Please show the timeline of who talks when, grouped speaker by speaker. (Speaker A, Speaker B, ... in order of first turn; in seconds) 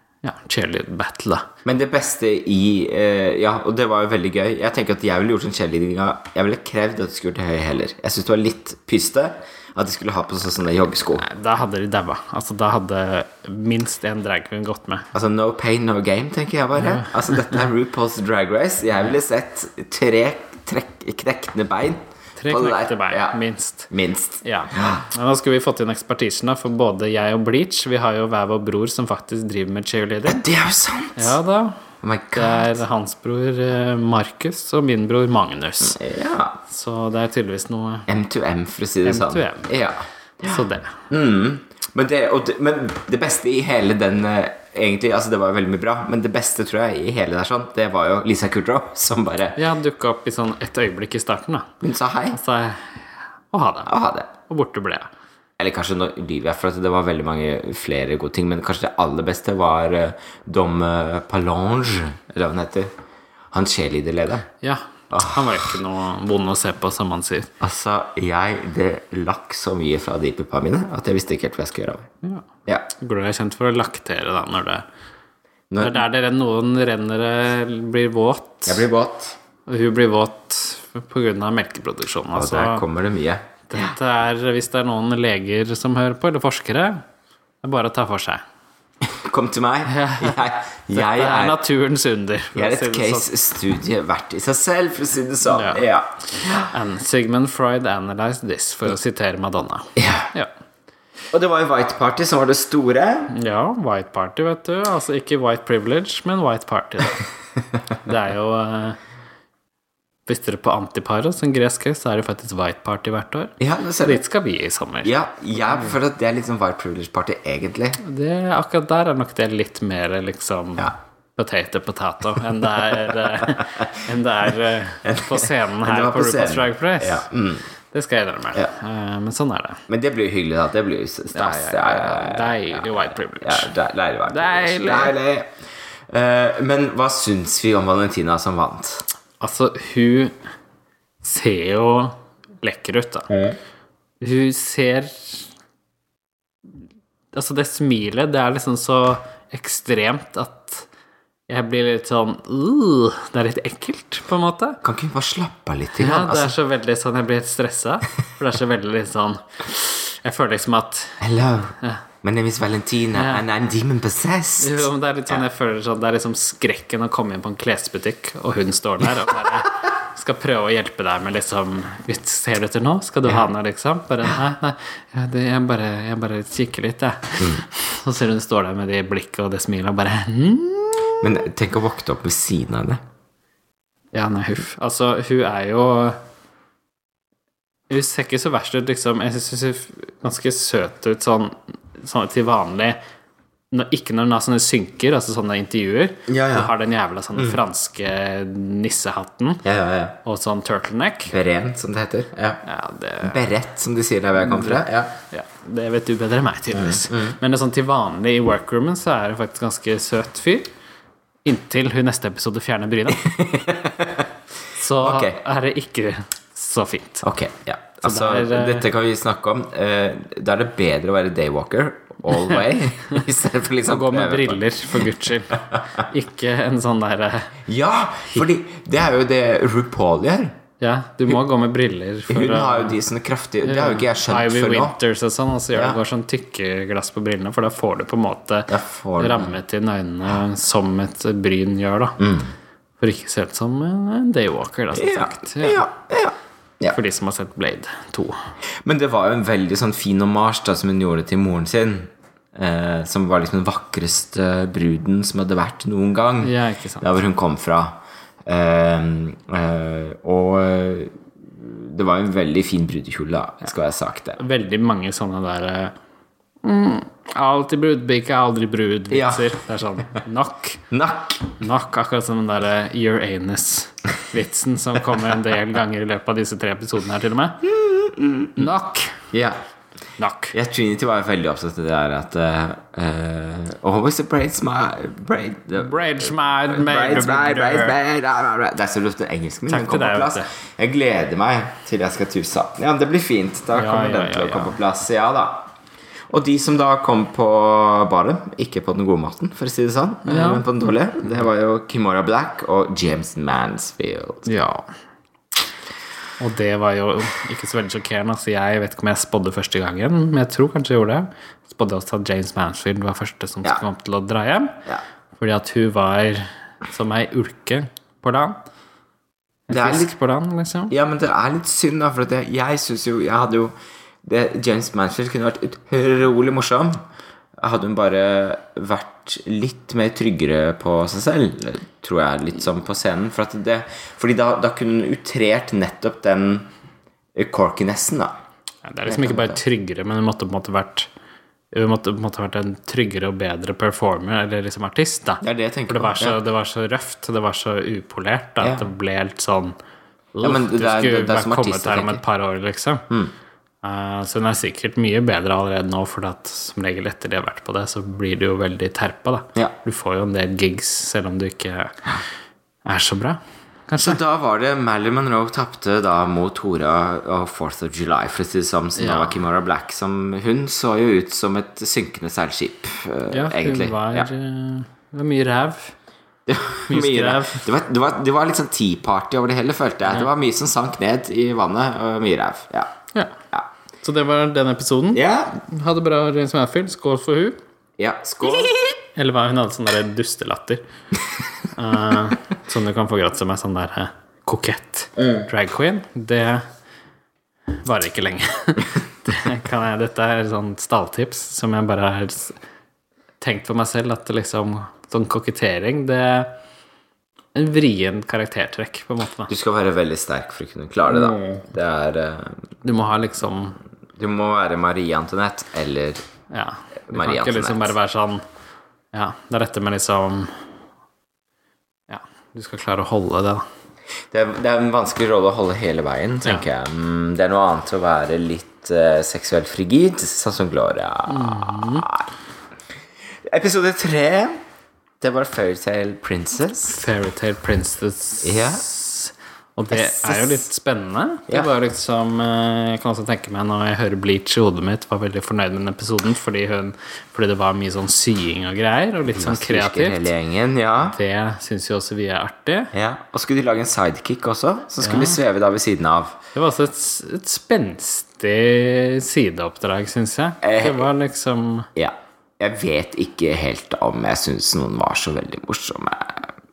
Speaker A: 0.2-1.5, 11.2-15.1, 16.8-17.4, 22.4-23.9, 24.4-30.4, 31.2-31.8, 32.3-36.0, 36.7-38.1, 39.0-39.7, 40.4-41.0, 49.6-51.7, 52.3-53.9, 54.5-55.1, 64.6-67.5, 73.0-74.8, 75.8-78.8, 79.7-82.8, 83.7-87.0, 87.6-88.4, 89.9-93.3, 95.5-95.8, 96.4-100.5, 103.3-107.2, 108.0-109.0, 110.3-115.1, 118.0-127.3, 127.9-129.8, 131.3-133.7, 134.3-135.2, 139.4-140.3, 141.2-143.3, 144.2-145.5, 147.3-150.9, 151.5-154.8, 156.0-161.2, 163.1-163.4, 164.6-181.3, 184.1-186.2, 187.9-193.0, 193.7-199.7, 200.2-201.3, 202.6-203.4, 204.4-210.7, 211.4-213.3, 214.7-217.3, 218.0-218.9, 223.8-227.6, 230.8-233.0, 233.7-242.2, 243.0-245.8, 246.9-248.5, 256.4-257.1, 264.4-265.9, 266.6-270.9, 271.6-277.7, 278.6-279.3, 280.2-280.6, 285.8-288.0, 289.7-290.5, 293.7-294.8, 300.2-300.6, 304.4-304.9, 306.4-314.8, 315.4-318.6, 319.7-320.9, 338.9-341.1, 341.7-349.8, 350.4-353.1, 353.8-362.1, 362.9-364.2, 369.0-369.4, 373.3-375.9, 376.9-377.7, 384.0-387.6, 388.4-390.8, 391.7-396.6, 397.8-402.6, 403.4-406.6, 407.6-409.5, 411.1-411.6, 412.8-413.8, 416.5-418.4, 419.1-420.5, 422.1-423.6, 431.3-432.1, 436.9-450.3, 451.1-452.9, 455.0-455.4, 456.6-461.9
Speaker B: 1.6-11.2, 15.1-23.4, 23.9-25.1, 30.2-31.4, 32.0-32.8, 35.8-36.6, 38.1-40.6, 41.1-49.6, 51.8-52.4, 53.9-54.3, 55.6-62.9, 63.5-64.5, 65.1-65.7, 67.6-72.1, 75.7-76.0, 78.7-79.4, 82.3-83.9, 89.0-91.6, 92.5-96.7, 100.0-100.3, 101.3-103.3, 113.6-114.2, 115.0-118.0, 123.4-123.9, 125.0-127.7, 129.9-135.6, 136.1-139.1, 143.3-143.6, 154.8-156.6, 161.2-165.4, 181.2-183.0, 196.3-196.7, 199.6-200.2, 201.3-202.6, 203.2-205.1, 206.7-207.4, 213.1-214.3, 215.0-215.4, 217.2-224.6, 227.7-230.6, 232.3-235.0, 238.7-239.6, 242.2-242.5, 244.9-247.0, 248.8-264.4, 269.1-269.6, 270.9-271.5, 277.7-278.7, 279.3-279.6, 280.5-295.7, 296.3-304.5, 319.7-320.1, 320.9-327.0, 327.6-336.7, 337.4-338.4, 339.1-339.6, 345.4-346.4, 348.6-348.9, 350.4-352.2, 364.0-374.3, 376.5-382.9, 385.1-385.6, 388.0-388.8, 409.5-412.7, 414.2-416.2, 417.1-417.9, 424.3-432.3, 433.4-434.6, 435.2-437.1, 438.4-438.9, 439.9-440.6, 449.3-451.2, 452.9-456.4, 460.6-461.1, 461.9-466.5